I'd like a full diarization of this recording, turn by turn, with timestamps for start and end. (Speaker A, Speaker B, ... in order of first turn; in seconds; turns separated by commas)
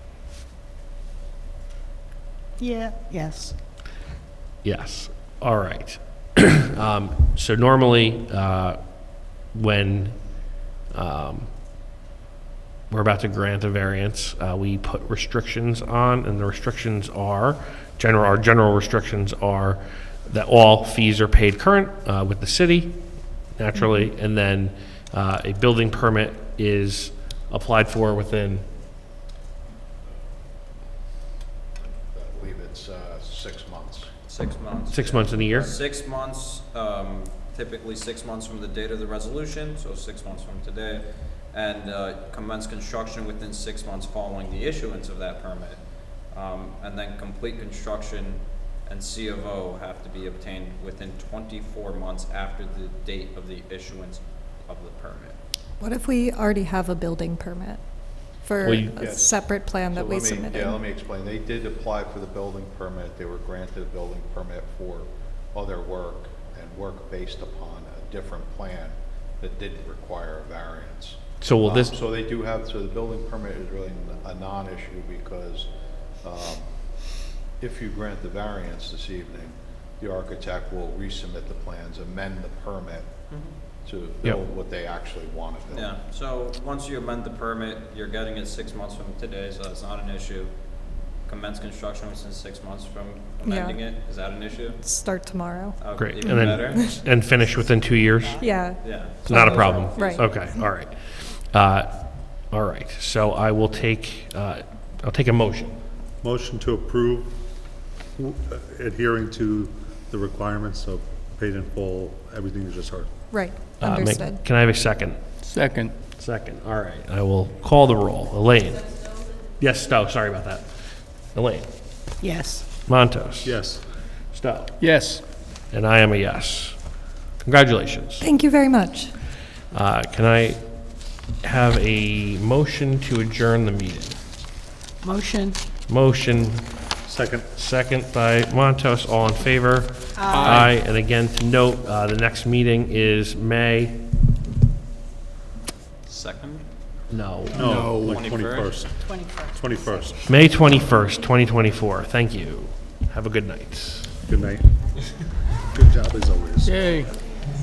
Speaker A: 2.6-3.5, Speaker B: 4.6-11.5, Speaker B: 12.9-28.6, Speaker C: 31.8-34.1, Speaker D: 34.3-55.4, Speaker B: 34.9-35.7, Speaker E: 55.8-60.8, Speaker B: 58.6-58.9, Speaker C: 58.9-75.7, Speaker B: 71.4-71.9, Speaker C: 76.2-76.7, Speaker C: 77.6-83.1, Speaker C: 83.8-85.9, Speaker D: 85.7-90.5, Speaker D: 91.2-94.9, Speaker E: 93.4-93.8, Speaker E: 94.8-95.8, Speaker D: 95.8-97.0, Speaker B: 96.0-98.6, Speaker E: 96.5-97.0, Speaker A: 97.6-98.7, Speaker E: 98.4-100.4, Speaker D: 98.7-100.4, Speaker B: 99.2-105.8, Speaker F: 106.2-107.4, Speaker F: 108.2-113.1, Speaker E: 113.3-114.4, Speaker B: 113.8-115.2, Speaker G: 115.4-115.9, Speaker B: 116.1-120.7, Speaker B: 121.2-121.7, Speaker A: 122.2-122.7, Speaker B: 122.8-123.7, Speaker F: 123.4-123.8, Speaker B: 124.3-125.1, Speaker G: 124.8-125.2, Speaker B: 125.7-128.3, Speaker E: 128.2-129.2, Speaker B: 129.7-134.2, Speaker A: 135.0-135.6, Speaker B: 135.9-136.8, Speaker F: 137.0-137.5, Speaker B: 137.5-144.0, Speaker A: 140.2-140.6, Speaker G: 140.3-140.6, Speaker D: 146.0-146.7, Speaker B: 147.1-147.6, Speaker F: 147.5-150.3, Speaker D: 147.5-148.9, Speaker G: 147.6-148.2, Speaker A: 149.0-150.6, Speaker B: 150.2-154.2, Speaker F: 154.2-154.7, Speaker F: 155.6-157.1, Speaker G: 156.6-157.1